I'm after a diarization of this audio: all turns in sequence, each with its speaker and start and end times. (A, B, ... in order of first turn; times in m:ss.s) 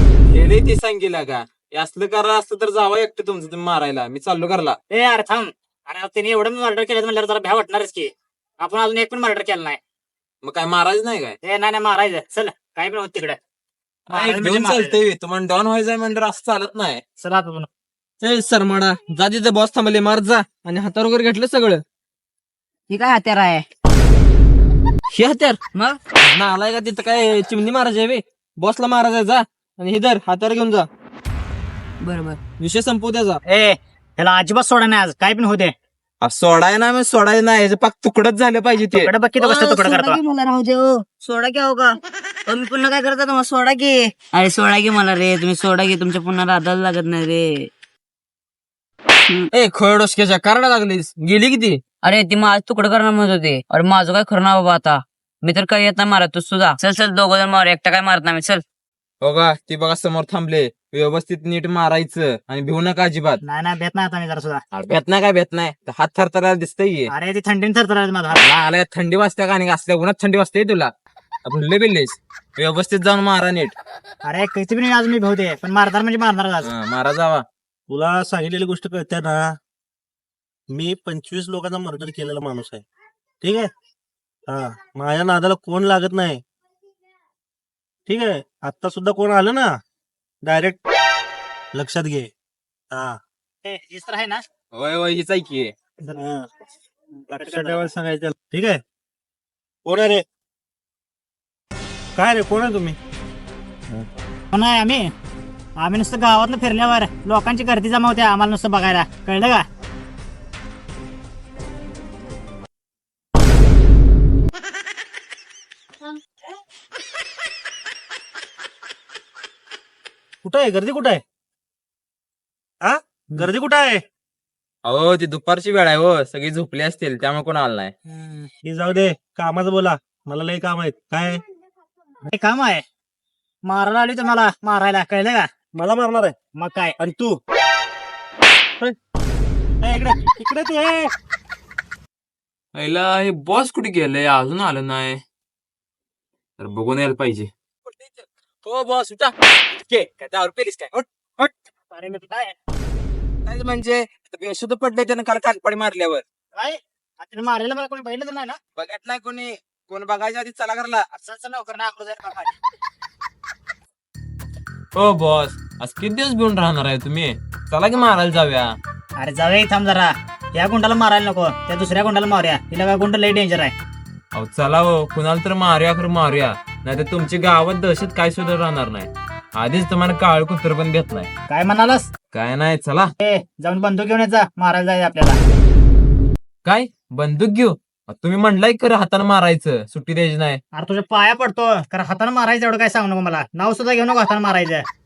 0:00.2-0:04.8 A
0:04.9-0:08.1 B
0:08.6-0:09.8 B
0:10.4-0:11.4 A
0:11.4-0:13.4 B
0:14.1-0:17.0 A
0:14.1-0:15.0 B
0:17.2-0:17.7 B
0:18.2-0:21.8 C
0:22.9-0:23.7 D
0:25.1-0:25.6 C
0:25.7-0:26.0 D
0:26.2-0:30.9 C
0:32.0-0:32.4 D
0:32.6-0:33.4 C
0:33.5-0:35.8 B
0:36.2-0:39.1 A
0:38.9-0:40.2 B
0:39.4-0:47.7 D
0:49.5-0:51.8 C
0:52.0-0:58.6 D
0:59.2-1:03.4 A
1:03.4-1:04.6 B
1:04.7-1:07.1 A
1:07.1-1:08.4 B
1:08.3-1:10.9 A
1:11.5-1:13.8 A
1:14.2-1:16.7 B
1:16.6-1:17.4 A
1:17.9-1:19.5 E
1:20.7-1:22.8 E
1:23.4-1:23.7 E
1:24.5-1:26.4 E
1:28.1-1:29.8 E
1:30.4-1:30.8 E
1:31.7-1:32.3 E
1:32.9-1:33.2 E
1:33.6-1:34.4 B
1:34.7-1:35.7 A
1:36.2-1:36.5 E
1:37.2-1:37.8 B
1:37.3-1:38.8 E
1:39.8-1:40.2 E
1:42.2-1:43.0 E
1:44.5-1:45.1 B
1:45.8-1:49.6 B
2:00.4-2:01.2 E
2:02.8-2:04.0 E
2:04.8-2:07.9 A
2:08.1-2:08.5 B
2:08.6-2:11.4 E
2:12.3-2:12.8 B
2:13.6-2:15.5 B
2:15.8-2:16.4 E
2:16.6-2:17.0 B
2:17.0-2:17.4 E
2:19.8-2:21.1 E
2:22.8-2:25.2 A
2:26.6-2:31.5 A
2:31.9-2:32.6 B
2:33.5-2:36.2 A
2:36.6-2:38.6 B
2:38.8-2:41.0 A
2:41.1-2:42.5 B
2:45.0-2:48.7 A
2:49.2-2:53.7 B
2:54.3-3:01.3 A
3:01.5-3:02.1 B
3:02.3-3:03.1 A
3:03.2-3:05.4 B
3:06.6-3:10.6 A
3:10.7-3:14.8 B